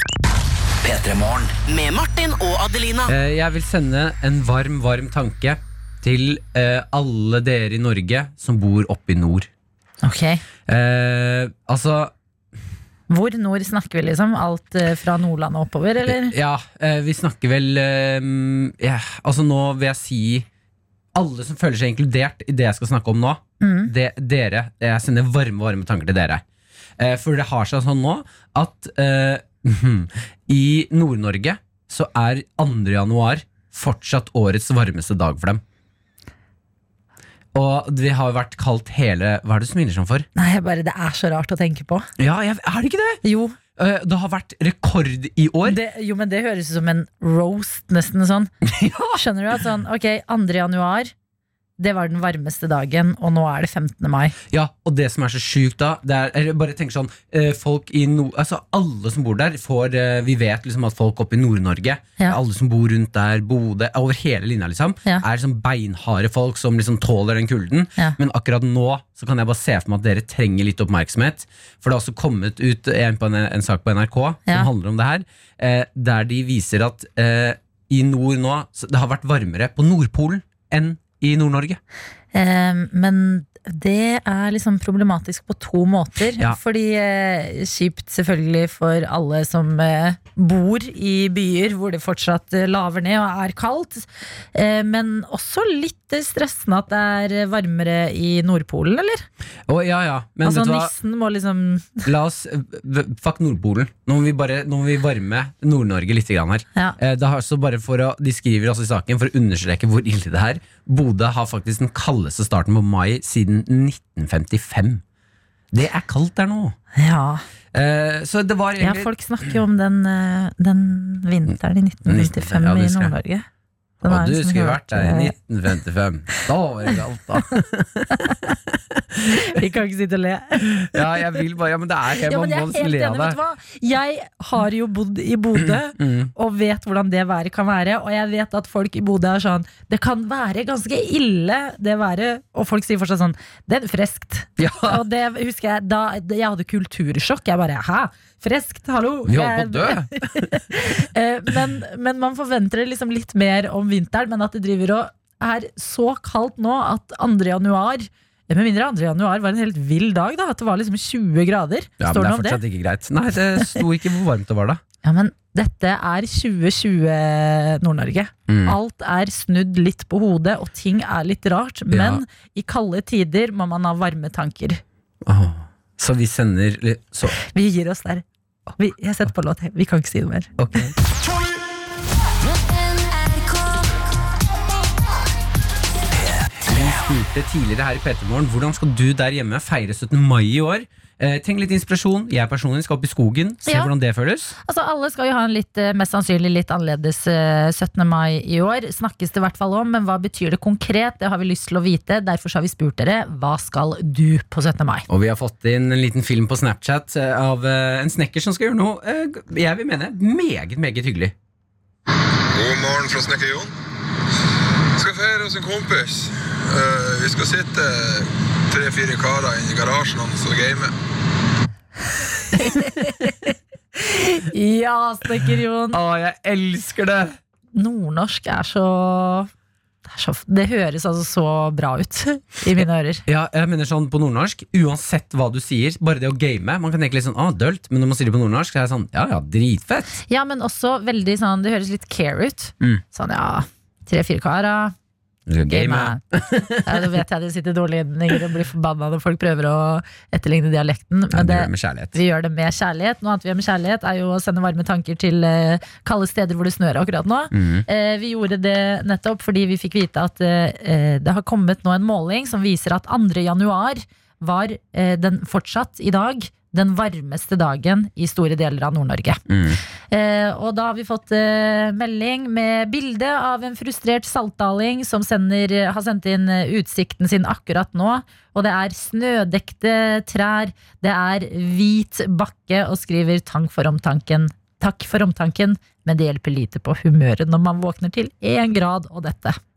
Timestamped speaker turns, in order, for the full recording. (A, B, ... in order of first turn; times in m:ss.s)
0:00.8-0:03.1 A
0:03.1-0:09.5 B
0:10.0-0:10.4 C
0:10.7-0:12.1 B
0:13.1-0:16.3 C
0:16.1-0:20.4 B
0:21.1-0:26.4 B
0:23.6-0:23.9 C
0:27.0-0:35.6 B
0:37.5-0:40.3 B
0:40.4-0:42.1 C
0:42.2-0:43.2 B
0:43.2-0:43.6 C
0:43.8-0:45.8 B
0:45.6-0:48.5 C
0:48.7-0:49.1 B
0:49.1-0:51.1 C
0:51.8-0:54.4 C
0:54.5-1:21.8 B
1:22.3-1:39.2 C
1:39.7-1:40.9 B
1:40.4-1:42.0 C
1:42.0-1:55.0 B
1:55.7-1:56.8 B
1:56.9-1:57.4 C
1:57.7-1:59.1 B
1:58.8-2:03.4 C
2:02.0-2:03.1 B
2:04.0-2:05.3 C
2:04.0-2:09.4 B
2:09.4-2:11.3 C
2:10.9-2:13.4 B
2:12.2-2:42.6 C
2:15.7-2:16.3 B
2:24.6-2:25.0 B
2:29.3-2:30.6 B
2:42.0-2:44.8 B
2:45.0-2:54.8 C
2:48.5-2:48.8 B
2:51.9-2:52.2 B
2:55.2-2:57.4 B
2:57.5-2:58.2 C
2:58.8-3:00.5 C
3:00.6-3:00.9 B
3:06.6-3:14.5 B
3:13.6-3:13.9 C
3:14.6-3:25.1 C
3:25.1-3:31.3 B
3:32.5-3:33.7 D
3:35.0-3:40.9 D
3:42.6-3:43.3 C
3:44.0-3:46.0 C
3:45.9-3:47.4 B
3:47.7-3:49.5 C
3:50.0-3:53.2 C
3:53.3-4:00.2 B
4:00.3-4:04.9 C
4:05.5-4:07.1 B
4:05.7-4:06.2 C
4:06.8-4:29.4 C
4:11.3-4:12.2 B
4:17.5-4:17.8 B
4:29.5-4:29.8 B
4:30.1-4:49.6 C